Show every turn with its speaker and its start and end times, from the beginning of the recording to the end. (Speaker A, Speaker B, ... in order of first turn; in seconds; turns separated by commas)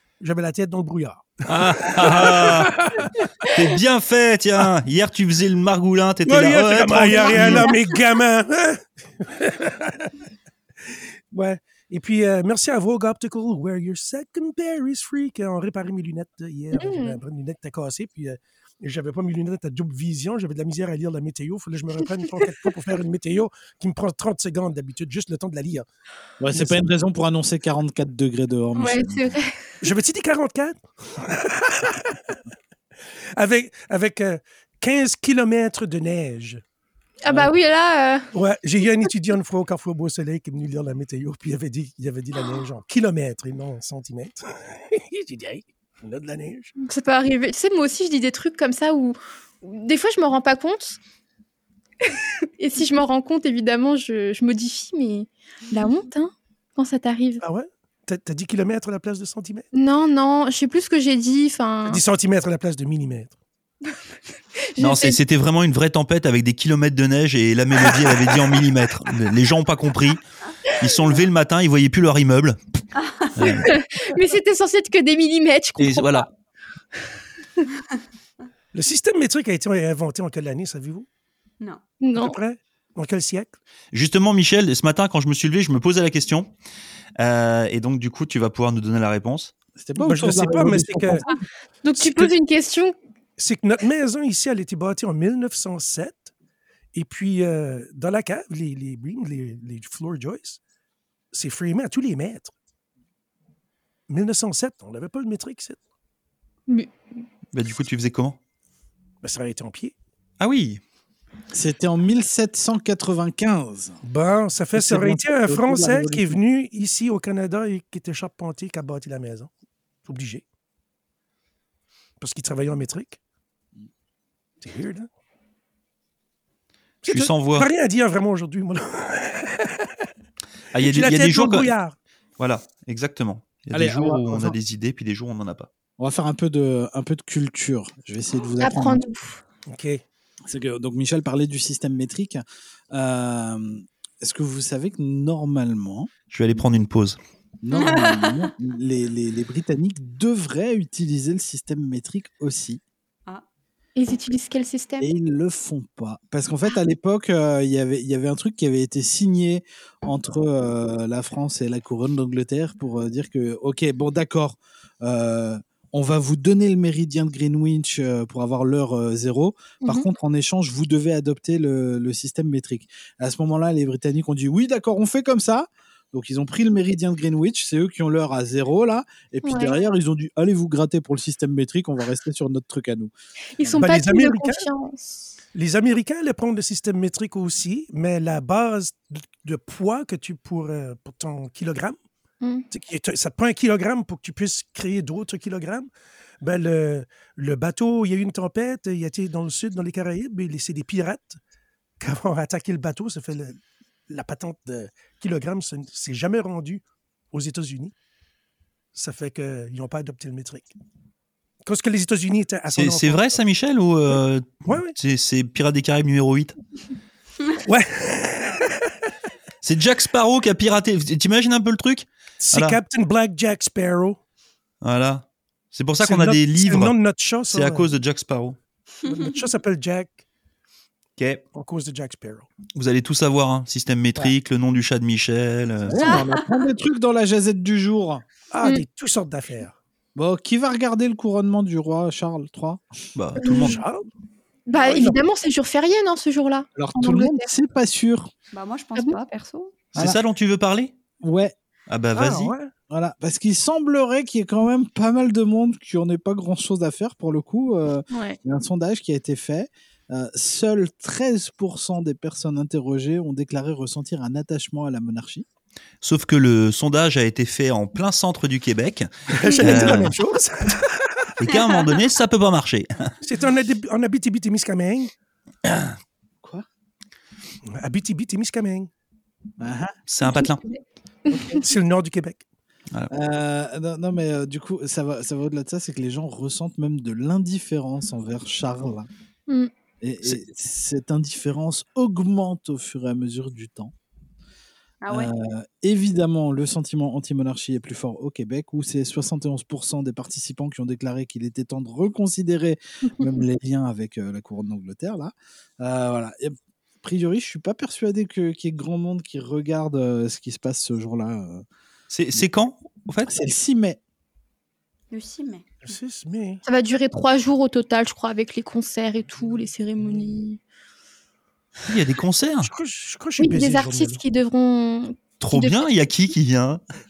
Speaker A: 0.2-3.5, Speaker B: 1.5-2.7, Speaker B: 3.5-7.7, Speaker A: 6.2-10.1, Speaker A: 10.8-25.9, Speaker C: 16.7-17.2, Speaker D: 26.4-29.3, Speaker A: 26.5-26.8, Speaker C: 28.8-29.6, Speaker A: 29.8-32.4, Speaker A: 33.4-36.6, Speaker C: 37.2-38.3, Speaker A: 38.3-46.7, Speaker C: 46.8-51.0, Speaker C: 52.1-57.4, Speaker A: 57.4-59.7, Speaker C: 59.7-62.0, Speaker A: 61.9-63.4, Speaker C: 64.7-65.2, Speaker B: 64.8-70.2, Speaker A: 67.8-68.5, Speaker B: 70.8-72.6, Speaker E: 73.0-73.4, Speaker B: 73.3-73.7, Speaker C: 73.4-76.2, Speaker B: 75.8-76.3, Speaker A: 78.7-81.1, Speaker C: 82.0-82.4, Speaker A: 82.2-83.5, Speaker B: 83.9-86.5, Speaker B: 87.2-89.5, Speaker D: 89.8-91.2, Speaker A: 90.0-91.3, Speaker C: 91.3-92.9, Speaker A: 92.0-92.3, Speaker A: 93.4-96.3, Speaker A: 96.9-100.6, Speaker A: 101.3-102.5, Speaker A: 104.1-105.8, Speaker C: 106.7-106.9, Speaker B: 107.5-108.4, Speaker A: 109.2-109.9, Speaker B: 110.4-110.8, Speaker D: 111.5-114.0, Speaker A: 114.0-119.5, Speaker D: 114.7-116.4, Speaker A: 120.0-120.4, Speaker A: 122.2-123.2, Speaker A: 124.6-125.1, Speaker A: 127.0-130.1, Speaker B: 127.1-127.7, Speaker B: 130.7-131.7, Speaker A: 130.8-131.9, Speaker B: 132.4-135.7, Speaker D: 133.7-134.6, Speaker D: 136.0-139.0, Speaker C: 138.6-139.4, Speaker A: 139.7-140.0, Speaker D: 140.4-146.1, Speaker B: 146.3-147.2, Speaker D: 147.6-152.8, Speaker E: 147.7-148.5, Speaker C: 153.9-155.1, Speaker D: 155.0-183.1, Speaker C: 179.4-179.8, Speaker C: 183.5-185.3, Speaker A: 183.7-184.7, Speaker A: 185.5-192.0, Speaker A: 192.7-195.9, Speaker A: 196.4-201.4, Speaker A: 202.0-207.9, Speaker A: 208.9-210.7, Speaker A: 211.6-213.4, Speaker B: 212.7-216.5, Speaker A: 214.6-214.9, Speaker A: 217.7-219.1, Speaker B: 219.6-222.8, Speaker A: 222.4-224.2, Speaker B: 224.8-226.9, Speaker A: 226.0-227.9, Speaker B: 227.5-228.6, Speaker A: 229.0-230.2, Speaker B: 231.2-231.4, Speaker A: 231.5-232.5, Speaker B: 232.8-236.2, Speaker D: 235.8-238.2, Speaker E: 236.0-236.5, Speaker A: 238.5-239.8, Speaker D: 240.1-243.0, Speaker B: 243.2-243.8, Speaker C: 243.4-243.8, Speaker A: 243.4-244.1, Speaker C: 244.7-247.5, Speaker A: 244.7-245.2, Speaker D: 246.8-248.3, Speaker E: 248.5-249.7, Speaker B: 249.9-250.9, Speaker D: 251.2-251.5, Speaker B: 251.9-252.5, Speaker A: 252.1-252.7, Speaker D: 252.9-265.4, Speaker C: 258.1-258.4, Speaker B: 266.0-270.1, Speaker A: 269.3-271.4, Speaker D: 269.7-270.1, Speaker B: 271.4-273.1, Speaker A: 273.2-275.1, Speaker B: 275.6-275.9, Speaker A: 277.8-278.9, Speaker D: 279.6-279.9, Speaker B: 280.1-280.6, Speaker C: 280.4-281.6, Speaker D: 281.3-281.6, Speaker A: 281.6-282.4, Speaker D: 283.1-289.1, Speaker D: 290.0-293.9, Speaker E: 295.0-295.3, Speaker D: 295.1-311.6, Speaker B: 312.1-313.3, Speaker D: 313.3-314.0, Speaker E: 315.1-315.8, Speaker A: 315.8-316.6, Speaker C: 316.6-320.6, Speaker B: 321.8-322.7, Speaker A: 322.6-324.2, Speaker C: 323.4-325.9, Speaker B: 325.4-326.8